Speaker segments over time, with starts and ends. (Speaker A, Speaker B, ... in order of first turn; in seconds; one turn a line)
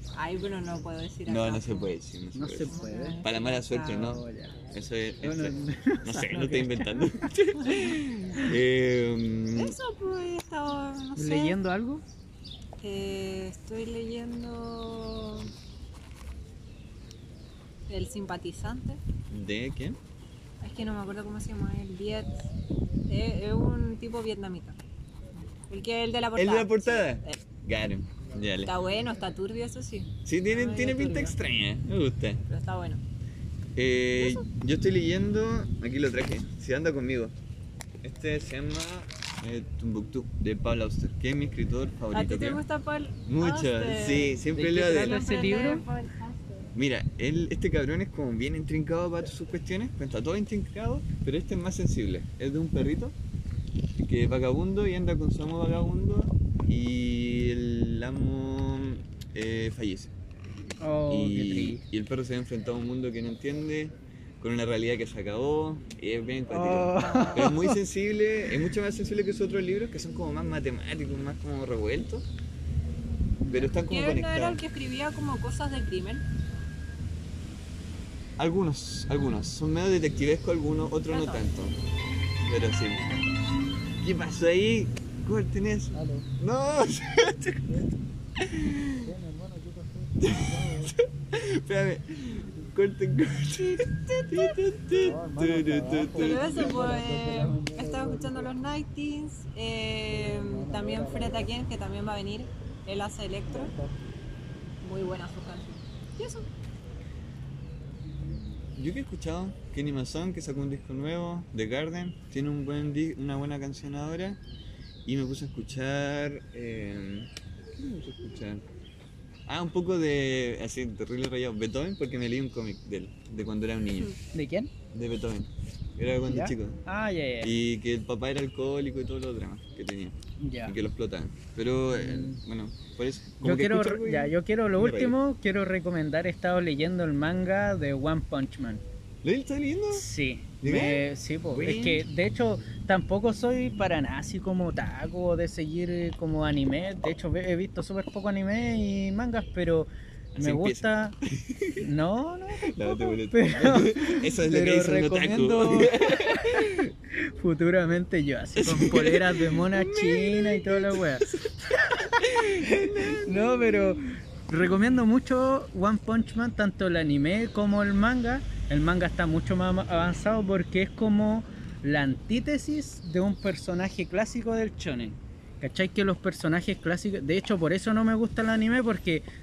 Speaker A: 0.1-1.9
Speaker B: 1.2-9.8
Speaker C: 2.3-3.2
Speaker A: 2.7-4.2
Speaker C: 4.0-4.7
Speaker C: 5.2-7.7
Speaker A: 9.6-11.6
Speaker C: 11.2-12.0
Speaker A: 12.8-15.5
Speaker A: 17.9-19.0
Speaker B: 19.3-20.0
Speaker A: 20.6-22.5
Speaker A: 23.1-24.8
Speaker A: 25.7-27.4
Speaker B: 26.4-28.7
Speaker A: 28.6-31.4
Speaker B: 30.2-32.4
Speaker A: 32.5-33.0
Speaker B: 33.8-37.3
Speaker A: 34.1-34.5
Speaker B: 38.0-42.6
Speaker A: 42.1-46.7
Speaker B: 43.3-45.2
Speaker C: 44.5-45.9
Speaker B: 46.7-53.1
Speaker B: 54.0-60.1
Speaker C: 60.8-61.8
Speaker B: 61.1-72.2
Speaker C: 66.5-67.8
Speaker C: 73.4-73.8
Speaker B: 73.5-74.6
Speaker A: 73.7-76.2
Speaker B: 78.4-81.8
Speaker A: 81.1-81.5
Speaker B: 82.4-83.2
Speaker B: 84.0-87.9
Speaker C: 85.9-86.3
Speaker C: 87.6-87.9
Speaker B: 88.4-89.1
Speaker C: 89.0-91.0
Speaker B: 90.2-97.0
Speaker A: 93.6-94.6
Speaker C: 94.9-98.5
Speaker A: 96.2-103.7
Speaker C: 100.1-101.5
Speaker C: 103.5-103.9
Speaker A: 104.8-106.5
Speaker B: 108.8-114.4
Speaker B: 115.0-118.6
Speaker B: 119.5-124.1
Speaker C: 124.3-124.7
Speaker B: 124.9-126.8
Speaker C: 126.3-127.5
Speaker B: 127.4-135.2
Speaker C: 130.4-130.7
Speaker C: 132.0-132.4
Speaker C: 133.4-138.8
Speaker B: 139.2-140.1
Speaker C: 139.9-151.1
Speaker B: 140.6-142.1
Speaker B: 150.3-151.9
Speaker C: 151.8-179.2
Speaker B: 152.6-156.9
Speaker B: 158.6-161.5
Speaker B: 162.1-164.0